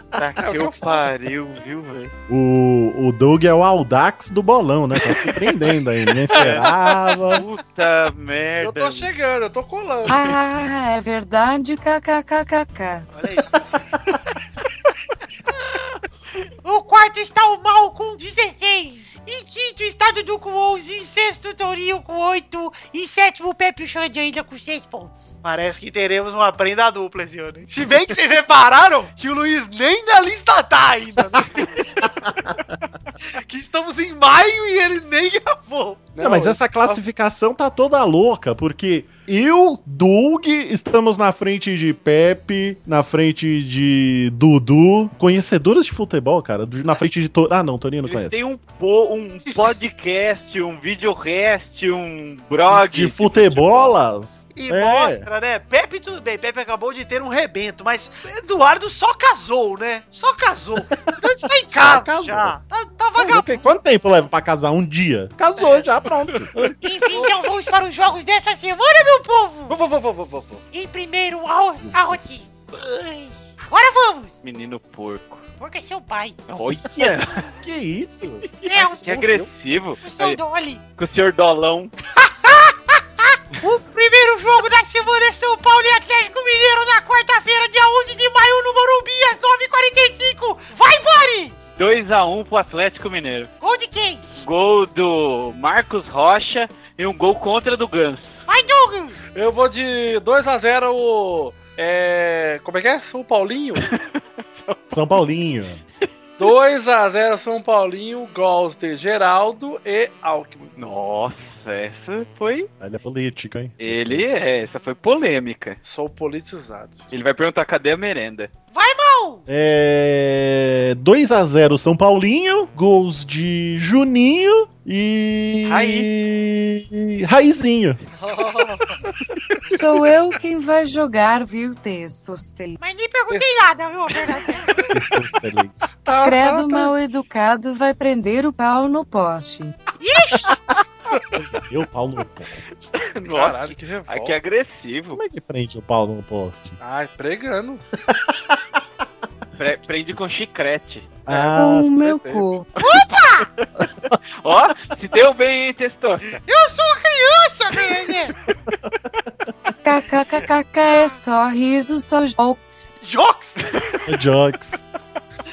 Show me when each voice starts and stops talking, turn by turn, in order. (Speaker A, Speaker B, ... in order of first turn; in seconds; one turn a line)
Speaker A: 0.2-2.1
Speaker B: 0.4-1.1
Speaker C: 2.3-7.4
Speaker A: 6.3-6.7
Speaker A: 7.3-9.1
Speaker B: 8.6-10.3
Speaker D: 10.1-13.1
Speaker E: 16.6-25.4
Speaker F: 25.4-32.2
Speaker F: 33.5-36.1
Speaker B: 36.1-37.0
Speaker C: 36.2-48.4
Speaker A: 48.1-54.0
Speaker C: 52.7-55.3
Speaker F: 54.5-63.5
Speaker C: 61.7-62.6
Speaker C: 63.2-66.8
Speaker F: 65.6-65.8
Speaker E: 66.8-69.8
Speaker B: 69.7-70.6
Speaker E: 70.7-74.4
Speaker C: 71.8-72.2
Speaker A: 74.4-75.4
Speaker E: 75.6-76.4
Speaker A: 76.5-77.5
Speaker C: 77.6-78.5
Speaker A: 78.6-80.4
Speaker E: 78.6-79.2
Speaker B: 79.0-79.5
Speaker E: 80.0-80.8
Speaker A: 81.0-81.9
Speaker E: 82.2-91.6
Speaker A: 91.8-93.5
Speaker E: 93.6-94.2
Speaker A: 94.3-98.3
Speaker E: 98.5-99.2
Speaker B: 99.3-103.9
Speaker A: 104.5-104.8
Speaker C: 104.9-105.8
Speaker B: 106.4-110.8
Speaker A: 110.8-112.7
Speaker C: 112.8-114.3
Speaker A: 113.8-115.8
Speaker B: 115.8-117.0
Speaker A: 117.1-118.5
Speaker E: 118.7-119.4
Speaker C: 119.5-128.0
Speaker A: 125.7-126.1
Speaker F: 128.2-129.0
Speaker D: 129.7-132.8
Speaker E: 132.8-134.9
Speaker B: 133.3-133.7
Speaker C: 134.9-135.8
Speaker B: 136.1-136.9
Speaker D: 136.2-139.8
Speaker E: 140.0-140.5
Speaker C: 141.3-142.9
Speaker A: 143.1-145.2
Speaker B: 143.3-144.4
Speaker C: 145.1-146.8
Speaker B: 146.8-147.8
Speaker C: 148.1-148.6
Speaker A: 149.6-151.1
Speaker B: 151.3-152.5
Speaker C: 151.3-151.9
Speaker D: 151.5-152.7
Speaker E: 152.8-153.5
Speaker C: 153.8-154.2
Speaker A: 154.4-156.4
Speaker E: 156.5-158.4
Speaker D: 159.8-162.9
Speaker F: 163.0-163.6
Speaker C: 164.1-165.1